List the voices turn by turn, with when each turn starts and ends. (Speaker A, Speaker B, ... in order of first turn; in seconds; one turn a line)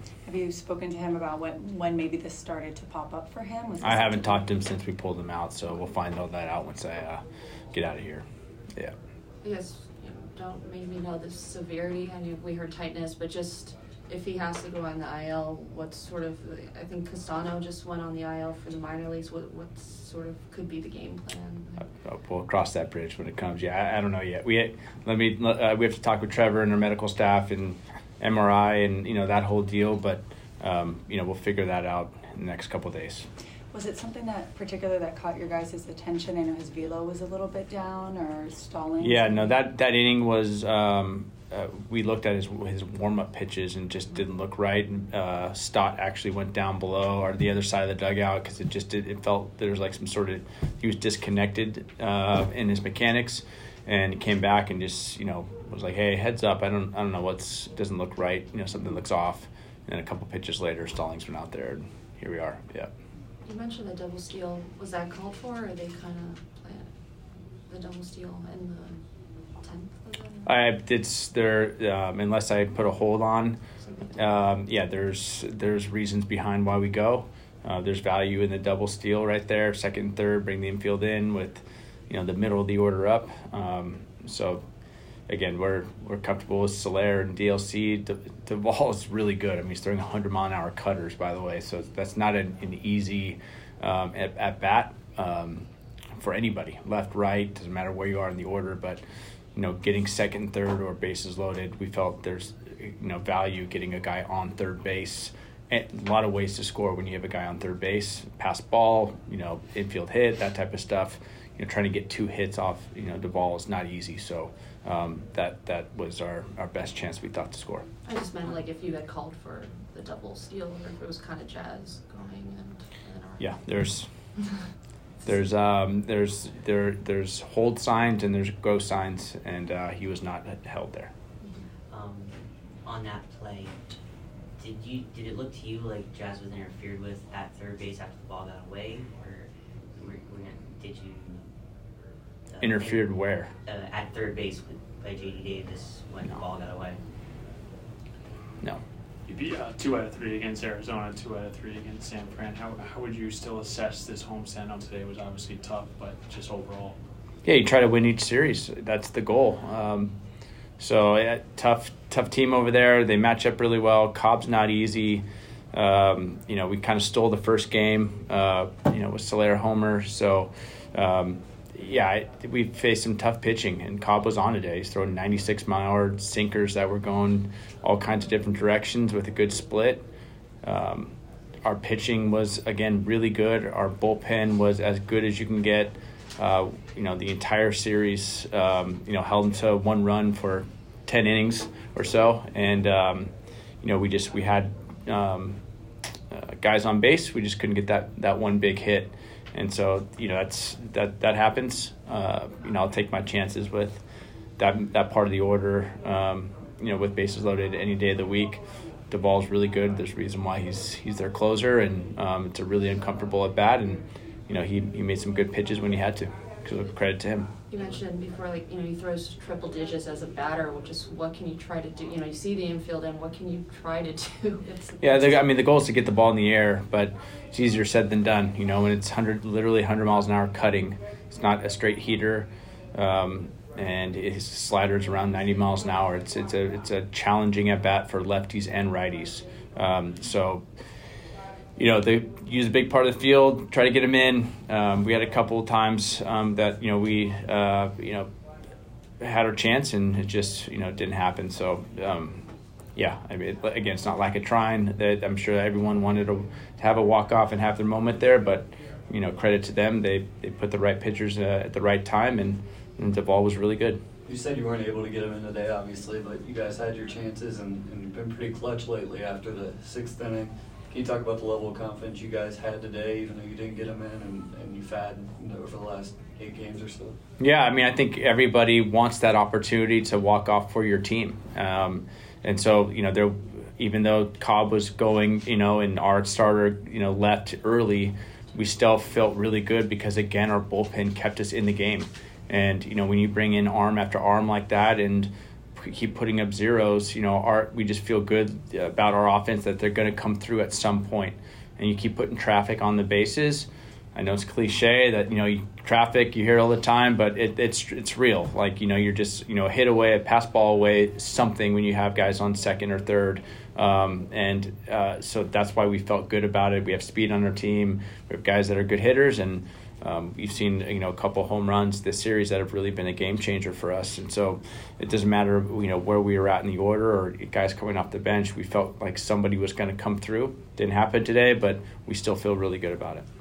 Speaker A: 0.3-4.5
Speaker B: 3.8-8.9
Speaker C: 9.4-21.9
Speaker B: 22.0-33.3
Speaker A: 33.7-39.6
Speaker B: 39.0-62.9
Speaker C: 63.5-66.9
Speaker C: 67.7-69.0
Speaker C: 69.6-70.5
Speaker B: 70.5-73.6
Speaker C: 73.8-74.3
Speaker B: 74.2-84.6
Speaker B: 85.3-99.0
Speaker B: 99.5-117.9
Speaker C: 118.1-124.0
Speaker B: 123.4-124.1
Speaker B: 125.2-131.1
Speaker C: 131.4-131.7
Speaker D: 131.9-133.9
Speaker D: 134.6-141.5
Speaker D: 142.5-147.0
Speaker B: 142.6-143.5
Speaker E: 150.2-151.1
Speaker E: 151.8-156.0
Speaker B: 157.4-160.2
Speaker B: 160.8-180.0
Speaker B: 180.6-193.3
Speaker B: 193.8-195.6
Speaker B: 196.3-204.0
Speaker B: 204.6-217.5
Speaker C: 217.7-225.6
Speaker B: 225.0-240.6
Speaker B: 241.8-248.3
Speaker B: 249.2-252.4
Speaker B: 253.0-264.0
Speaker F: 264.3-277.2
Speaker B: 277.4-333.2